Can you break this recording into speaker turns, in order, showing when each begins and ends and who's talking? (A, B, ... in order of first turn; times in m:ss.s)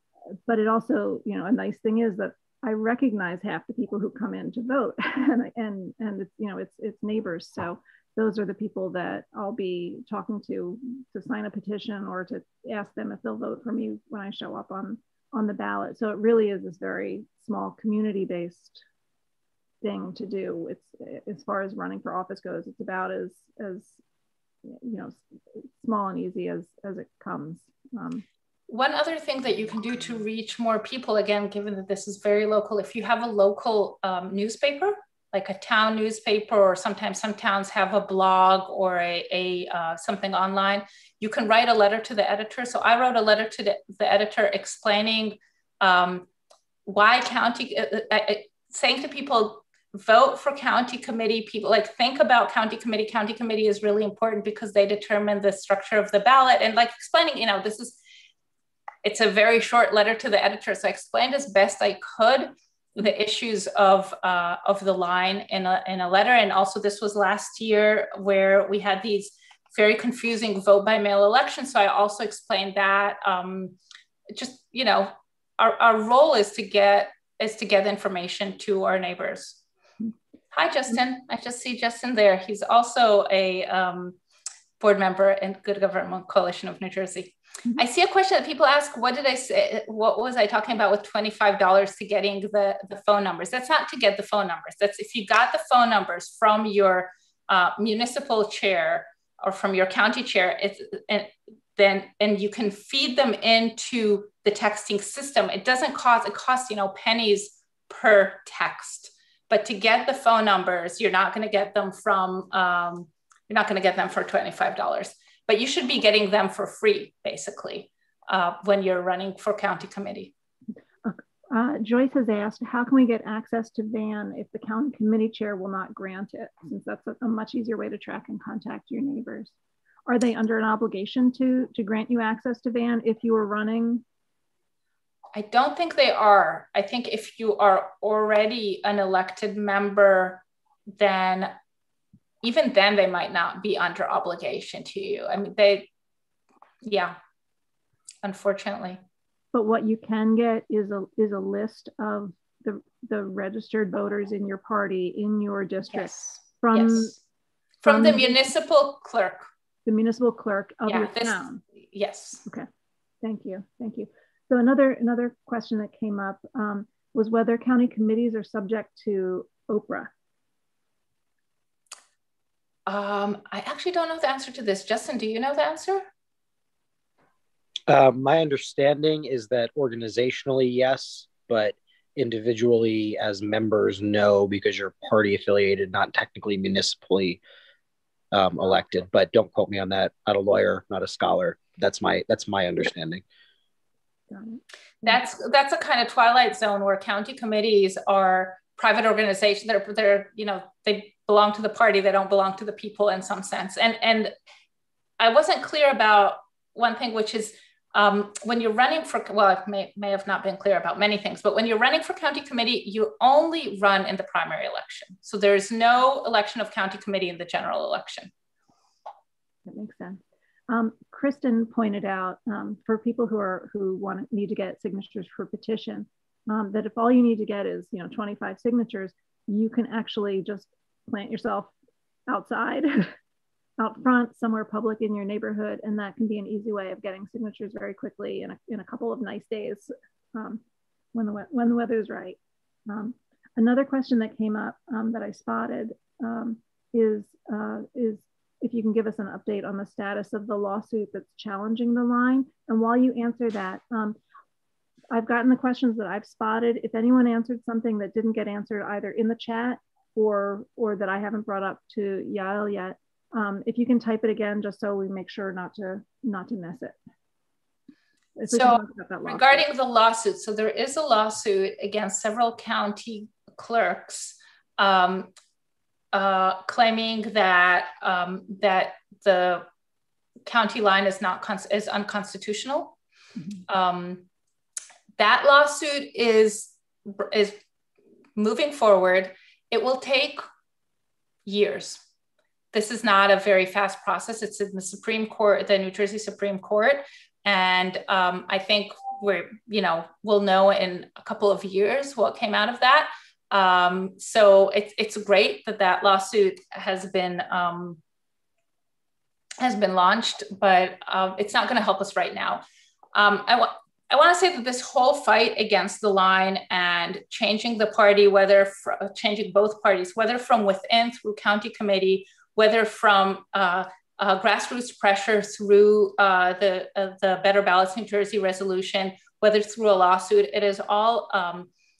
0:00.3-0:18.8 A
0:19.8-0:24.0 A
0:24.6-0:28.2 A
0:28.7-0:46.3 B
0:46.8-0:58.0 B
0:59.0-1:13.7 B
1:14.3-1:19.6 B
1:20.5-1:24.2 B
1:24.8-2:00.3 B
2:01.0-2:09.5 A
2:10.1-2:14.0 A
2:15.3-2:20.4 B
2:21.0-2:21.5 B
2:22.4-2:25.9 B
2:26.8-2:27.2 B
2:28.2-2:29.0 B
2:29.5-2:37.2 A
2:35.9-2:37.2 B
2:37.8-2:39.4 B
2:37.8-2:38.4 A
2:39.8-2:41.6 A
2:40.8-2:42.4 B
2:43.2-2:50.1 A
2:52.9-2:56.0 B
2:57.9-3:07.4 C
3:08.3-3:13.2 C
3:14.3-3:14.6 A
3:15.0-3:24.3 B
3:25.2-3:38.3 B
3:39.6-3:51.7 A
3:52.3-3:53.1 A
3:53.8-4:00.6 A
4:01.1-4:14.2 A
4:15.1-4:27.0 A
4:28.4-4:29.6 A
4:28.5-4:35.3 B
4:36.1-4:39.6 B
4:40.4-4:42.9 B
4:43.7-4:44.2 B
4:45.2-4:47.6 B
4:48.4-4:50.4 B
4:51.4-4:52.0 B
4:52.7-5:08.0 B
5:09.6-5:12.6 B
5:13.1-5:31.7 B